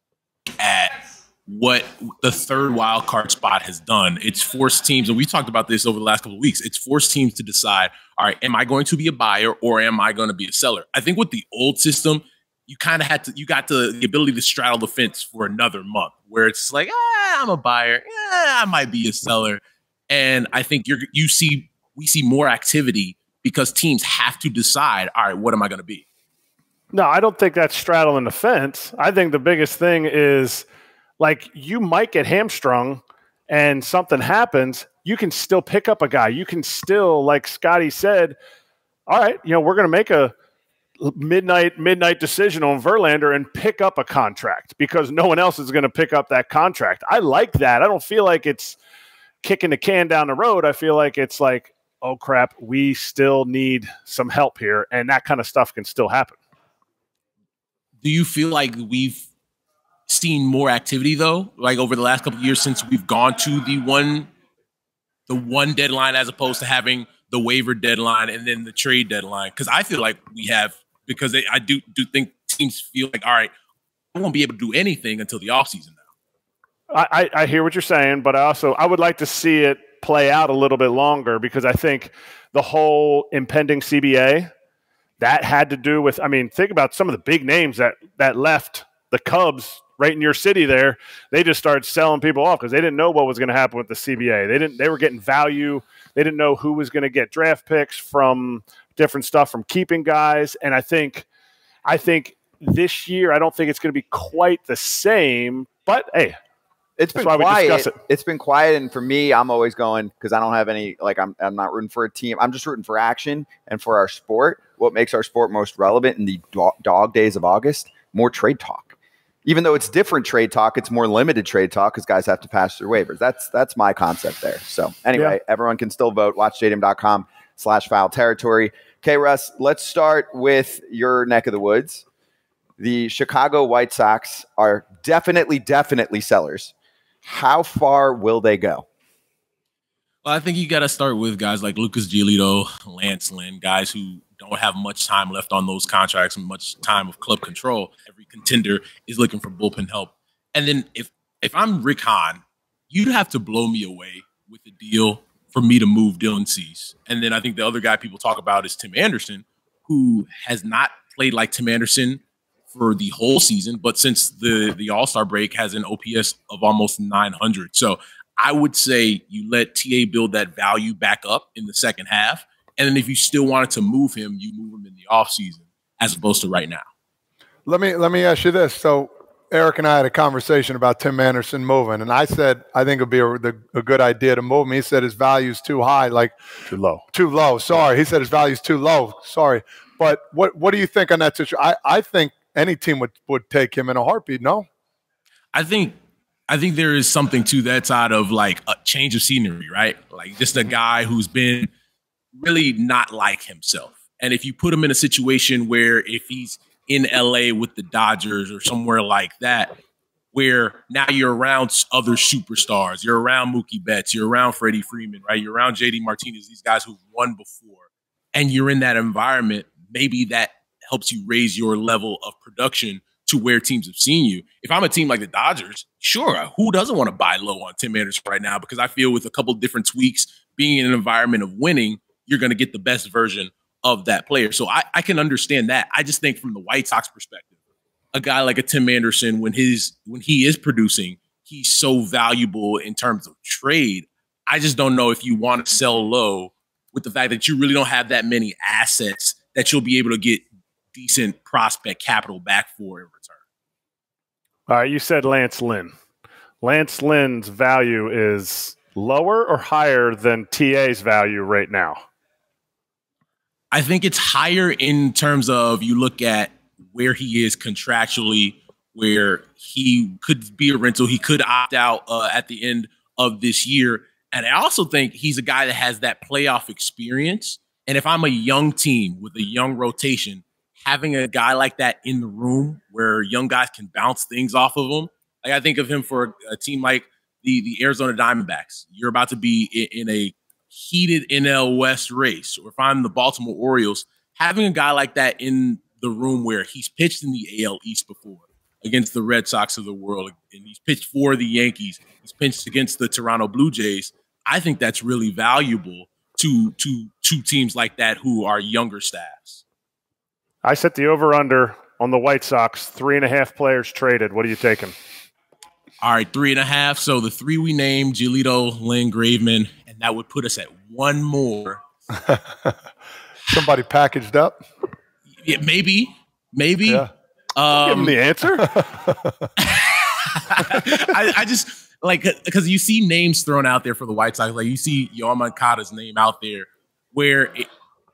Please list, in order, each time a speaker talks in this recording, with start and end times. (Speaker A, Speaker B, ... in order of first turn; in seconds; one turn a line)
Speaker A: 0.6-0.9
Speaker A: 1.4-26.1
Speaker B: 26.9-30.7
Speaker B: 31.2-38.4
Speaker B: 39.1-40.3
Speaker B: 41.0-48.8
Speaker B: 49.4-56.4
Speaker A: 58.0-59.3
Speaker A: 60.1-64.3
Speaker A: 65.3-73.5
Speaker A: 74.1-76.0
Speaker B: 76.9-84.5
Speaker B: 85.2-101.3
Speaker B: 101.8-106.3
Speaker C: 107.0-132.0
Speaker B: 107.1-107.9
Speaker C: 132.8-136.7
Speaker C: 137.2-138.8
Speaker A: 140.2-176.9
Speaker D: 177.7-186.3
Speaker B: 186.7-187.0
Speaker D: 187.1-194.7
Speaker A: 195.5-195.9
Speaker A: 196.5-201.7
Speaker A: 202.3-209.8
Speaker A: 210.3-237.5
Speaker A: 238.1-253.4
Speaker B: 254.7-255.9
Speaker B: 256.6-262.0
Speaker A: 263.7-309.6
Speaker B: 310.6-314.9
Speaker A: 316.0-321.8
Speaker D: 322.3-322.7
Speaker D: 323.5-324.6
Speaker A: 325.4-328.2
Speaker B: 327.8-328.8
Speaker D: 328.8-329.3
Speaker A: 329.6-337.6